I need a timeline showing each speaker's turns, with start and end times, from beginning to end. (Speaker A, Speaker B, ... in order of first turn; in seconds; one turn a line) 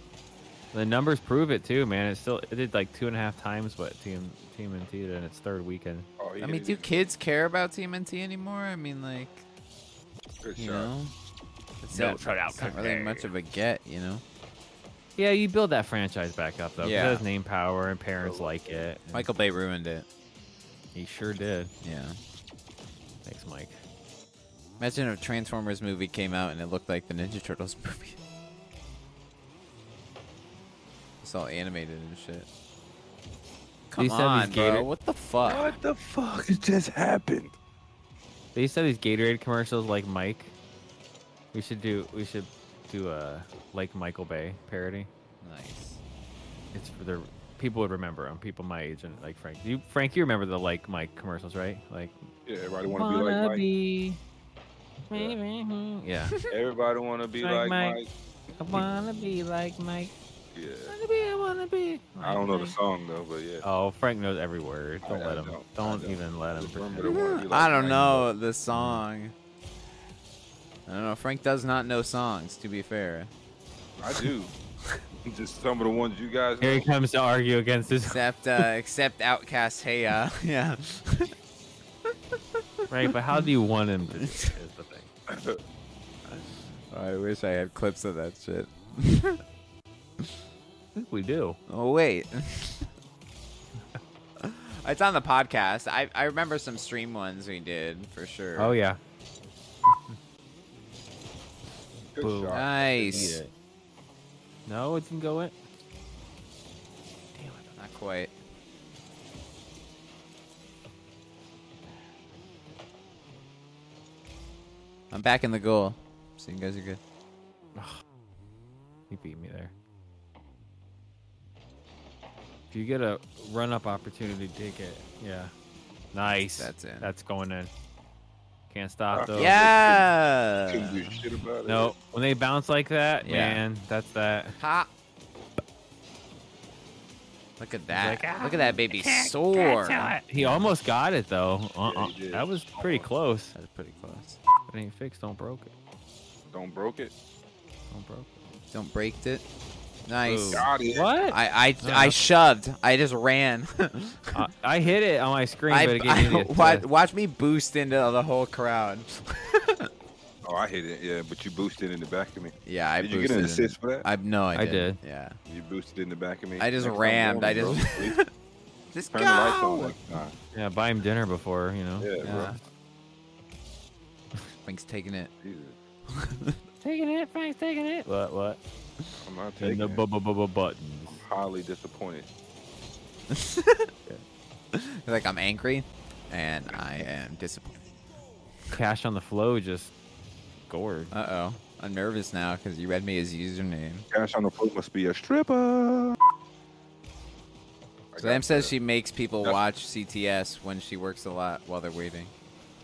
Speaker A: 0.7-6.1
Speaker B: 6.2-7.1
Speaker C: 6.4-9.4
Speaker B: 10.4-10.9
Speaker C: 10.6-11.1
Speaker C: 11.8-14.2
Speaker A: 11.9-13.3
Speaker A: 15.2-19.2
Speaker C: 16.8-17.2
Speaker B: 18.2-18.9
Speaker C: 19.1-20.1
Speaker A: 20.9-21.7
Speaker C: 21.8-22.2
Speaker A: 23.2-23.8
Speaker C: 24.8-28.2
Speaker C: 31.2-32.5
Speaker C: 33.9-35.7
Speaker A: 34.0-34.9
Speaker B: 35.4-37.5
Speaker A: 38.5-40.5
Speaker A: 41.5-45.1
Speaker C: 45.4-46.0
Speaker A: 46.7-52.1
Speaker B: 52.5-53.7
Speaker A: 52.9-54.2
Speaker A: 55.0-56.3
Speaker B: 56.5-58.1
Speaker A: 57.4-58.0
Speaker A: 58.6-60.1
Speaker B: 58.7-59.0
Speaker B: 60.5-61.0
Speaker A: 60.9-62.8
Speaker B: 62.2-63.6
Speaker A: 63.6-67.2
Speaker B: 65.0-68.3
Speaker C: 67.0-69.3
Speaker A: 68.7-69.0
Speaker C: 70.9-73.3
Speaker B: 74.0-74.5
Speaker B: 75.2-76.9
Speaker A: 76.6-78.7
Speaker C: 78.0-81.3
Speaker A: 82.9-85.1
Speaker B: 85.3-85.6
Speaker C: 86.9-89.4
Speaker A: 90.9-91.6
Speaker C: 91.7-92.9
Speaker C: 94.4-98.7
Speaker A: 98.5-99.0
Speaker B: 102.1-103.4
Speaker A: 102.2-103.5
Speaker C: 102.5-103.4
Speaker A: 104.7-105.5
Speaker A: 107.4-107.7
Speaker C: 107.7-108.3
Speaker C: 115.1-117.0
Speaker A: 117.8-118.0
Speaker A: 119.1-119.7
Speaker A: 122.7-125.5
Speaker A: 126.1-127.7
Speaker C: 126.5-127.1
Speaker A: 128.7-129.6
Speaker B: 129.1-130.1
Speaker C: 129.3-131.2
Speaker B: 130.7-131.9
Speaker A: 131.6-134.6
Speaker C: 133.2-133.6
Speaker C: 134.6-134.9
Speaker C: 137.6-140.1
Speaker A: 137.9-143.5
Speaker B: 140.4-140.7
Speaker B: 141.8-143.1
Speaker C: 143.5-144.4
Speaker A: 144.7-145.7
Speaker B: 146.5-147.1
Speaker A: 147.9-148.3
Speaker C: 148.7-149.4
Speaker C: 150.1-150.7
Speaker A: 150.2-152.2
Speaker B: 150.5-151.2
Speaker C: 151.3-154.4
Speaker A: 154.3-156.9
Speaker C: 155.7-159.9
Speaker B: 160.4-164.1
Speaker C: 162.6-165.4
Speaker A: 164.5-165.0
Speaker B: 165.4-168.2
Speaker C: 166.6-168.3
Speaker C: 168.9-170.1
Speaker B: 169.1-170.4
Speaker A: 170.5-172.1
Speaker B: 172.0-172.6
Speaker C: 172.2-172.6
Speaker C: 174.6-175.3
Speaker B: 175.4-175.8
Speaker C: 176.2-176.6
Speaker A: 176.8-178.6
Speaker B: 179.2-180.0
Speaker A: 179.6-181.2
Speaker B: 181.1-182.3
Speaker C: 183.3-183.9
Speaker C: 184.7-187.8
Speaker A: 188.7-189.9
Speaker A: 190.7-191.1
Speaker C: 191.1-194.1
Speaker B: 194.1-196.2
Speaker B: 198.1-198.7
Speaker C: 198.2-202.3